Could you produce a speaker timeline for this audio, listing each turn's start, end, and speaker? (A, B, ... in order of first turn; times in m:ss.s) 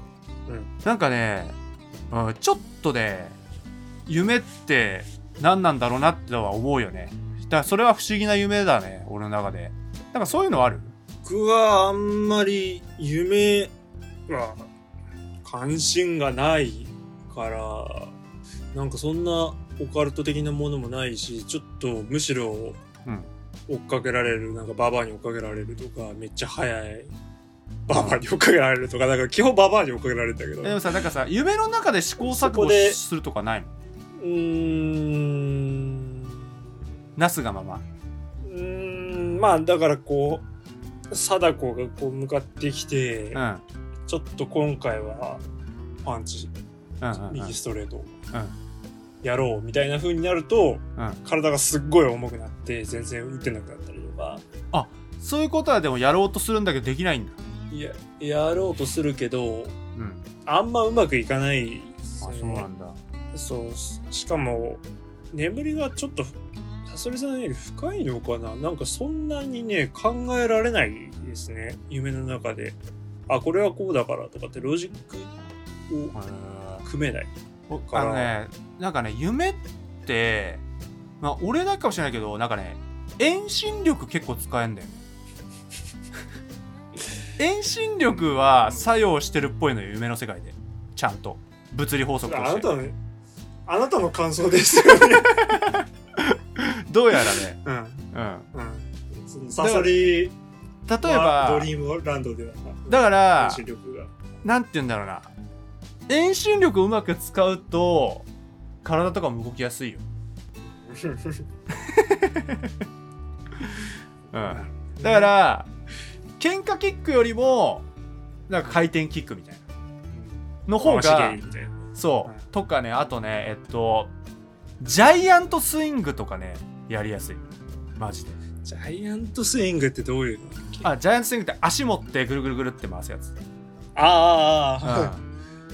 0:00.5-0:00.7 A
0:00.8-0:01.6 B
0:02.1-0:03.3 B
0:04.1-0:10.9 B
0:11.2-0:13.7 A
0:14.3-0:14.7 A
0:15.4-0:18.2 A
0:18.7-0:22.8 A
0:23.0-0:23.3 B
0:23.7-0:27.1 A
0:27.9-0:30.8 A
0:27.9-0:28.2 B
0:30.6-0:33.7 B
0:32.2-0:33.0 A
0:34.2-0:36.5 A
0:37.2-0:37.8 B
0:38.4-0:40.4 A
0:41.1-0:43.4 A
0:43.3-0:43.6 B
0:44.1-0:45.4 A
0:46.0-0:46.5 A
0:47.0-0:47.5 B
0:47.1-0:48.1 A
0:49.2-0:54.4 A
0:54.7-0:57.4 B
0:57.7-0:59.7 A
1:00.0-1:00.2 B
1:00.4-1:02.7 A
1:02.2-1:03.0 B
1:03.3-1:06.4 A
1:06.9-1:15.3 A
1:15.9-1:16.2 A
1:16.1-1:16.8 B
1:16.8-1:17.3 A
1:17.7-1:20.6 B
1:17.9-1:18.3 A
1:21.2-1:25.0 B
1:27.4-1:32.7 B
1:32.2-1:33.0 A
1:33.7-1:35.4 A
1:34.9-1:37.6 B
1:37.6-1:40.3 A
1:38.1-1:38.5 B
1:39.6-1:39.9 B
1:40.9-1:41.7 B
1:41.0-1:44.1 A
1:42.9-1:43.6 B
1:44.4-1:45.3 B
1:46.1-1:48.3 B
1:48.8-1:50.0 B
1:50.6-1:51.5 A
1:51.7-1:52.8 B
1:53.6-1:55.7 B
1:54.4-1:55.3 A
1:56.4-1:57.8 B
1:58.5-1:59.6 B
2:00.1-2:02.4 A
2:00.7-2:01.4 B
2:01.9-2:04.1 B
2:04.8-2:07.4 B
2:08.0-2:08.4 B
2:08.6-2:10.9 A
2:10.8-2:13.3 B
2:14.0-2:15.1 A
2:14.8-2:15.2 B